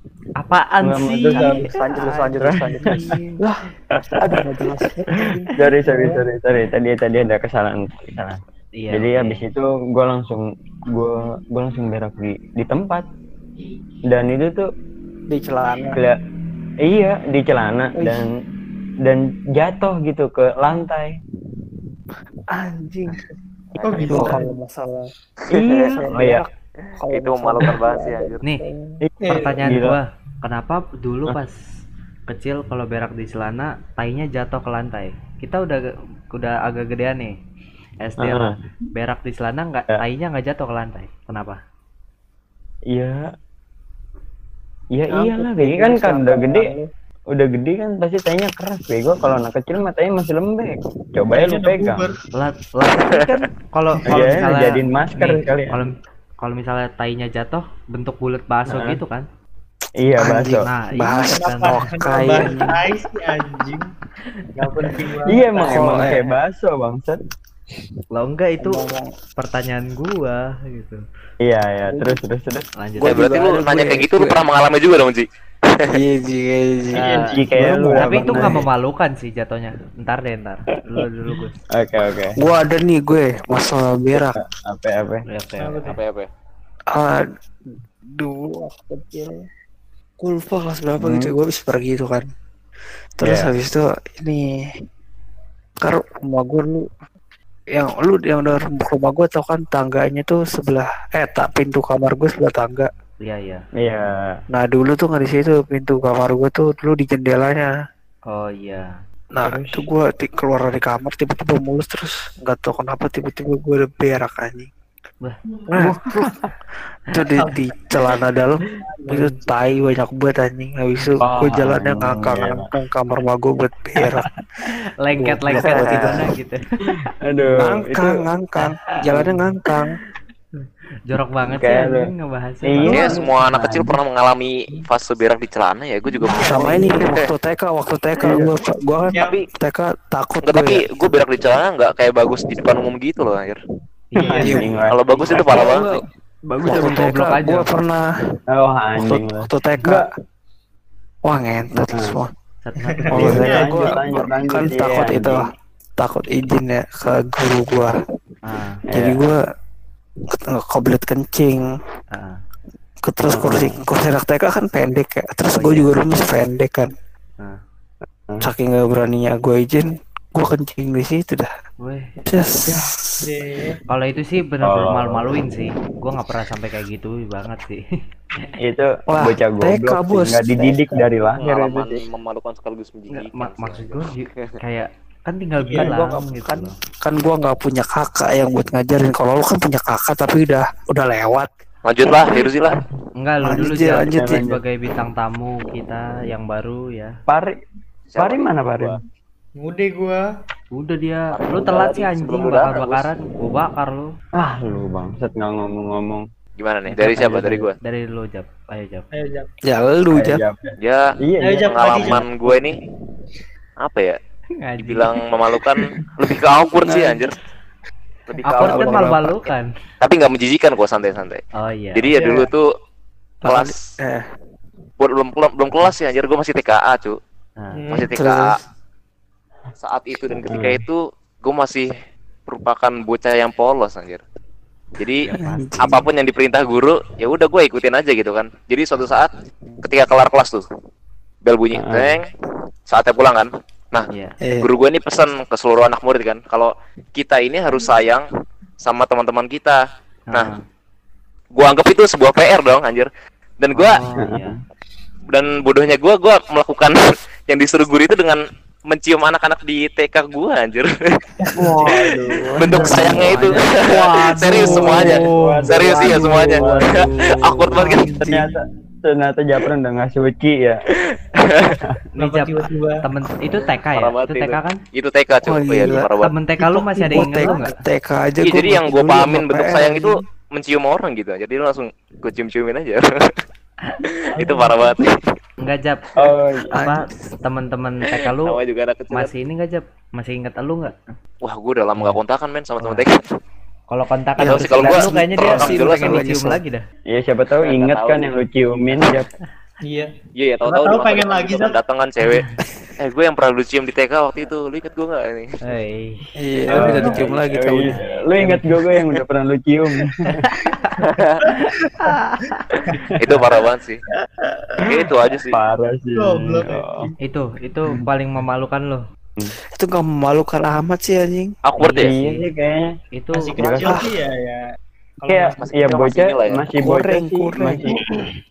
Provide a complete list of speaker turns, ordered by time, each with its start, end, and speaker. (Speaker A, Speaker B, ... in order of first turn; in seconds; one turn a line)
Speaker A: 0.4-3.4
Speaker B: 0.8-1.7
Speaker C: 1.3-3.4
Speaker B: 2.4-2.7
Speaker B: 3.4-4.5
Speaker C: 4.1-6.2
Speaker B: 5.5-8.3
Speaker A: 8.2-9.4
Speaker B: 8.9-13.1
Speaker B: 14.1-14.7
Speaker C: 15.3-16.0
Speaker B: 15.9-16.2
Speaker B: 16.8-18.3
Speaker C: 17.9-18.3
Speaker B: 19.0-21.2
Speaker C: 22.5-23.2
Speaker D: 23.8-24.5
Speaker E: 23.8-24.2
Speaker C: 24.1-29.0
Speaker B: 25.5-26.4
Speaker E: 25.6-25.9
Speaker E: 26.8-28.4
Speaker B: 29.0-30.0
Speaker D: 29.2-29.5
Speaker A: 29.3-31.6
Speaker A: 32.3-35.8
Speaker A: 36.3-37.4
Speaker A: 38.0-41.6
Speaker B: 38.2-38.5
Speaker B: 42.9-43.2
Speaker B: 44.9-46.7
Speaker C: 45.1-46.9
Speaker B: 47.3-52.1
Speaker D: 51.3-52.2
Speaker A: 52.3-59.2
Speaker B: 54.1-55.8
Speaker B: 58.7-59.0
Speaker B: 60.0-60.7
Speaker C: 60.2-62.8
Speaker A: 60.6-61.9
Speaker D: 61.4-63.9
Speaker D: 64.6-65.9
Speaker A: 64.6-64.9
Speaker B: 65.2-67.2
Speaker C: 65.6-66.2
Speaker A: 68.1-68.8
Speaker C: 68.6-69.1
Speaker A: 69.4-71.0
Speaker B: 71.4-72.7
Speaker C: 71.9-72.2
Speaker A: 72.8-73.3
Speaker C: 73.0-74.4
Speaker E: 73.0-75.9
Speaker C: 75.9-78.7
Speaker D: 76.9-77.5
Speaker A: 77.0-77.4
Speaker B: 77.3-78.6
Speaker A: 77.9-81.5
Speaker B: 81.7-82.4
Speaker C: 82.4-84.4
Speaker B: 84.1-85.2
Speaker A: 85.3-86.0
Speaker D: 85.6-86.0
Speaker E: 85.9-86.3
Speaker C: 86.9-89.4
Speaker C: 90.2-92.3
Speaker B: 91.0-91.3
Speaker C: 93.2-94.4
Speaker B: 93.2-93.5
Speaker C: 95.8-96.8
Speaker C: 97.8-102.9
Speaker A: 103.2-103.6
Speaker B: 103.8-104.4
Speaker C: 104.5-107.7
Speaker A: 108.3-108.9
Speaker C: 109.3-114.7
Speaker B: 109.4-109.9
Speaker C: 115.7-116.3
Speaker B: 115.8-116.5
Speaker C: 117.1-124.3
Speaker D: 118.8-119.7
Speaker B: 121.2-122.7
Speaker B: 124.0-124.2
Speaker A: 125.0-126.9
Speaker C: 125.2-126.2
Speaker B: 127.0-128.2
Speaker C: 127.5-130.0
Speaker B: 129.1-129.4
Speaker A: 130.6-133.2
Speaker B: 131.5-132.1
Speaker B: 132.6-134.0
Speaker E: 132.8-137.3
Speaker D: 136.2-136.9
Speaker C: 136.3-141.2
Speaker B: 138.2-138.5
Speaker D: 139.1-139.4
Speaker E: 139.2-139.4
Speaker E: 140.4-143.6
Speaker A: 144.1-144.7
Speaker D: 144.2-144.6
Speaker B: 144.2-146.0
Speaker C: 144.3-144.8
Speaker E: 144.9-146.0
Speaker A: 146.5-147.7
Speaker B: 146.5-147.4
Speaker C: 146.6-148.0
Speaker B: 148.5-150.1
Speaker C: 148.9-150.1
Speaker C: 151.2-152.3
Speaker B: 151.9-152.2
Speaker A: 152.6-153.5
Speaker D: 152.9-154.0
Speaker C: 153.1-158.0
Speaker B: 153.1-155.5
Speaker A: 158.4-158.8
Speaker B: 158.9-159.4
Speaker C: 158.9-159.4
Speaker C: 160.3-161.7
Speaker A: 162.1-162.4
Speaker C: 163.0-166.9
Speaker B: 163.3-163.8
Speaker A: 165.5-166.0
Speaker C: 168.4-171.5
Speaker A: 171.8-172.1
Speaker C: 172.2-173.2
Speaker D: 173.2-173.8
Speaker A: 173.9-177.8
Speaker B: 174.6-175.4
Speaker B: 178.6-182.0
Speaker C: 179.1-181.1
Speaker E: 181.4-184.5
Speaker A: 183.1-186.7
Speaker D: 185.6-185.9
Speaker C: 185.8-191.5
Speaker E: 191.8-192.8
Speaker A: 193.2-197.1
Speaker C: 193.4-194.5
Speaker B: 194.1-194.6
Speaker B: 197.3-197.5
Speaker E: 198.1-199.0
Speaker B: 198.2-199.0
Speaker D: 199.6-200.2
Speaker A: 200.7-204.1
Speaker E: 201.3-203.1
Speaker B: 204.4-206.2
Speaker E: 206.6-207.8
Speaker B: 206.9-207.7
Speaker A: 207.8-209.1
Speaker D: 209.1-209.5
Speaker C: 209.7-210.4
Speaker B: 210.1-212.2
Speaker E: 210.8-211.1
Speaker D: 211.4-212.3
Speaker E: 211.6-212.8
Speaker E: 213.8-214.2
Speaker A: 214.6-215.2
Speaker E: 214.8-217.3
Speaker C: 216.8-217.3
Speaker E: 218.3-219.0
Speaker C: 218.4-219.4
Speaker A: 218.5-219.7
Speaker E: 220.0-221.4
Speaker A: 221.6-222.2
Speaker E: 221.9-222.7
Speaker D: 222.1-222.5
Speaker C: 223.4-224.2
Speaker E: 223.4-223.8
Speaker E: 225.0-227.2
Speaker A: 227.6-227.9
Speaker D: 227.8-228.1
Speaker E: 227.9-228.5
Speaker C: 228.1-228.6
Speaker E: 229.8-234.2
Speaker B: 230.4-230.8
Speaker E: 235.0-235.2
Speaker A: 235.2-236.0
Speaker C: 235.4-236.0
Speaker E: 235.8-239.3
Speaker E: 239.8-240.6
Speaker E: 241.4-242.3
Speaker B: 241.7-242.2
Speaker E: 242.9-244.1
Speaker A: 244.1-244.4
Speaker C: 244.4-244.7
Speaker E: 244.6-248.3
Speaker E: 248.8-249.8
Speaker A: 250.3-250.6
Speaker E: 251.6-254.0
Speaker A: 253.7-254.6
Speaker B: 254.2-254.6
Speaker E: 255.3-257.0
Speaker E: 257.5-262.0
Speaker C: 261.5-263.3
Speaker E: 262.6-268.1
Speaker A: 262.7-267.6
Speaker D: 262.7-263.1
Speaker B: 264.5-270.8
Speaker C: 267.7-268.5
Speaker E: 271.0-271.9
Speaker B: 271.7-271.9
Speaker A: 272.2-274.8
Speaker D: 272.2-273.0
Speaker E: 273.9-276.3
Speaker C: 275.4-280.2
Speaker A: 276.2-277.7
Speaker D: 277.1-277.7
Speaker E: 278.4-283.4
Speaker E: 284.0-285.3
Speaker D: 284.4-284.9
Speaker A: 285.6-286.2
Speaker B: 286.1-286.8
Speaker A: 286.7-288.6
Speaker C: 286.7-287.1
Speaker E: 288.4-289.3
Speaker A: 289.1-291.0
Speaker E: 291.4-293.2
Speaker A: 292.8-293.0
Speaker A: 293.9-296.8
Speaker C: 294.4-296.6
Speaker E: 294.4-296.3
Speaker B: 297.1-299.3
Speaker E: 297.6-299.2
Speaker E: 300.4-302.5
Speaker D: 300.6-301.8
Speaker E: 303.0-305.5
Speaker A: 305.6-307.2
Speaker C: 306.4-307.9
Speaker B: 306.7-310.4
Speaker A: 307.8-308.7
Speaker A: 310.3-311.0
Speaker E: 311.0-311.4
Speaker D: 311.4-312.1
Speaker A: 311.5-312.7
Speaker B: 312.7-313.4
Speaker E: 313.2-314.0
Speaker D: 314.4-314.9
Speaker E: 314.8-315.6
Speaker B: 315.0-317.1
Speaker D: 316.1-317.1
Speaker A: 317.2-319.0
Speaker C: 319.7-321.5
Speaker E: 321.6-322.1
Speaker A: 321.8-322.4
Speaker B: 321.9-322.9
Speaker A: 323.2-323.6
Speaker D: 323.3-324.6
Speaker B: 323.6-324.1
Speaker D: 325.2-325.7
Speaker B: 325.3-328.3
Speaker E: 325.7-326.7
Speaker C: 326.8-327.8